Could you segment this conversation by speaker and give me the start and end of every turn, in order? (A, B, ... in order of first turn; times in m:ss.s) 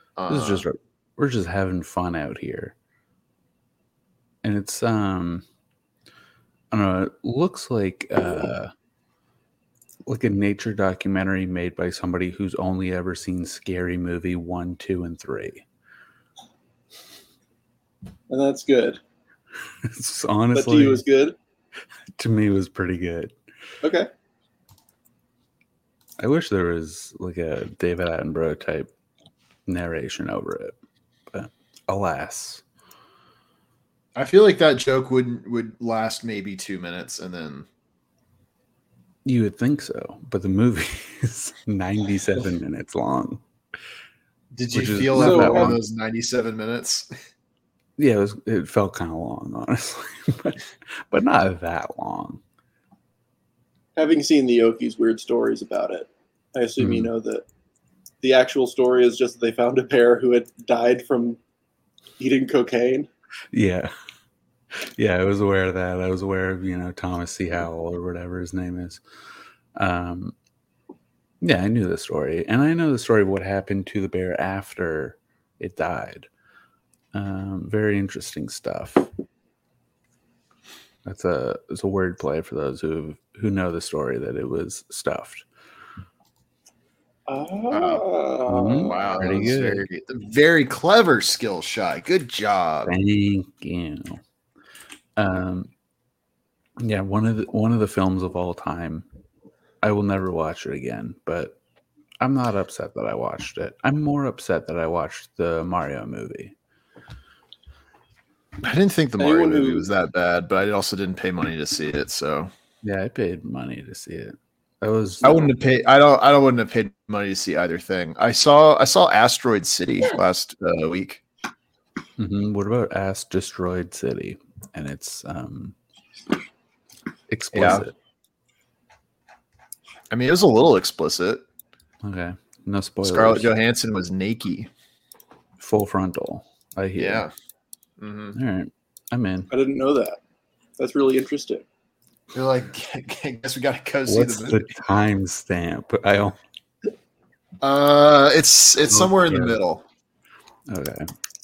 0:00.2-0:00.6 A
0:00.3-0:02.8 B
0:04.4-0:05.4 B
0:06.7-0:08.7 B
0:10.1-0:15.6 B
0:18.3-0:19.0 C
0:19.8-0:21.0 B
0:20.5-0:21.4 C
0:22.2-0:23.3 B
0:23.8-0:24.1 C
0:26.2-0:28.9 B
0:29.7-0:30.8 B
0:31.3-0:32.6 B
0:34.2-0:37.7 A
0:39.2-0:43.4 B
0:44.6-0:47.1 A
0:44.7-0:45.8 B
0:45.2-0:45.8 C
0:48.0-0:52.4 B
0:54.0-0:57.4 C
0:56.8-0:57.1 B
0:58.2-1:01.4 C
1:02.2-1:03.1 C
1:03.5-1:03.9 B
1:04.7-1:09.0 B
1:09.8-1:10.4 B
1:11.4-1:16.3 B
1:17.1-1:19.1 B
1:21.0-1:25.5 B
1:27.3-1:29.1 C
1:27.7-1:28.0 A
1:28.5-1:29.9 B
1:28.8-1:33.0 A
1:32.9-1:34.2 B
1:35.2-1:35.7 B
1:36.8-1:39.1 B
1:39.8-1:41.6 B
1:42.2-1:46.6 B
1:48.6-1:52.5 A
1:49.2-1:49.9 C
1:52.8-1:55.5 B
1:55.2-2:01.2 A
2:02.2-2:05.8 B
2:07.3-2:07.9 B
2:07.5-2:07.9 A
2:10.1-2:11.4 A
2:12.0-2:13.5 B
2:13.0-2:14.7 A
2:15.6-2:17.3 B
2:17.0-2:17.3 A
2:18.0-2:18.4 A
2:18.3-2:19.5 B
2:19.5-2:20.2 C
2:20.8-2:21.6 C
2:22.3-2:24.7 A
2:24.1-2:26.4 B
2:27.6-2:29.8 A
2:28.9-2:29.6 B
2:30.7-2:31.1 B